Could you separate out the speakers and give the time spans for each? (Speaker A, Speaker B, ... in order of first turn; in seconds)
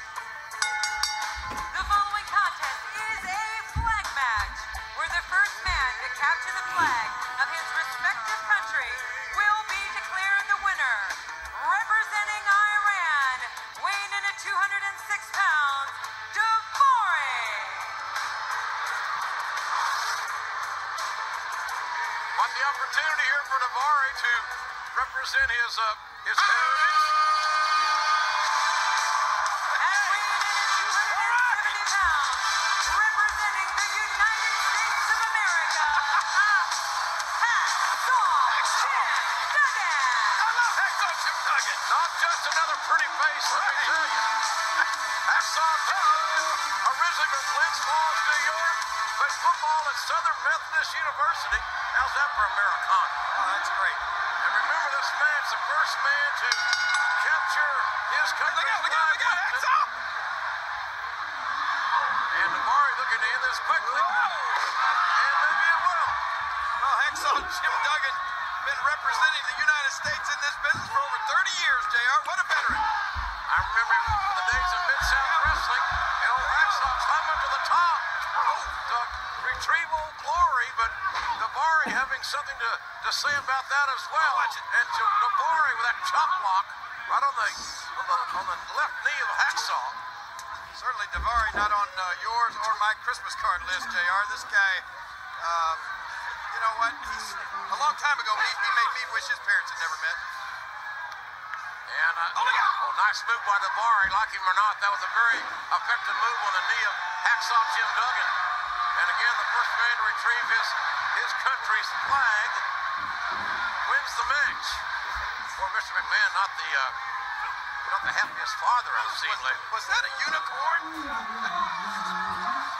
Speaker A: 1.7-18.0, 29.7-36.6, 37.3-40.5
Speaker B: 22.3-27.1, 41.8-44.3, 45.2-53.1, 54.4-59.7, 62.3-64.3, 65.0-66.2, 73.5-78.1, 78.6-90.0, 101.9-108.3, 108.9-112.6, 113.8-114.8, 115.5-117.0, 117.8-119.6
Speaker C: 31.1-31.6, 38.5-39.3, 40.4-41.8, 43.5-44.0, 53.3-54.0, 58.4-59.9, 63.8-64.7, 66.8-72.8, 75.2-75.6, 78.4-78.7, 84.2-84.6, 90.7-94.8, 95.4-95.9, 96.5-100.2, 119.0-121.5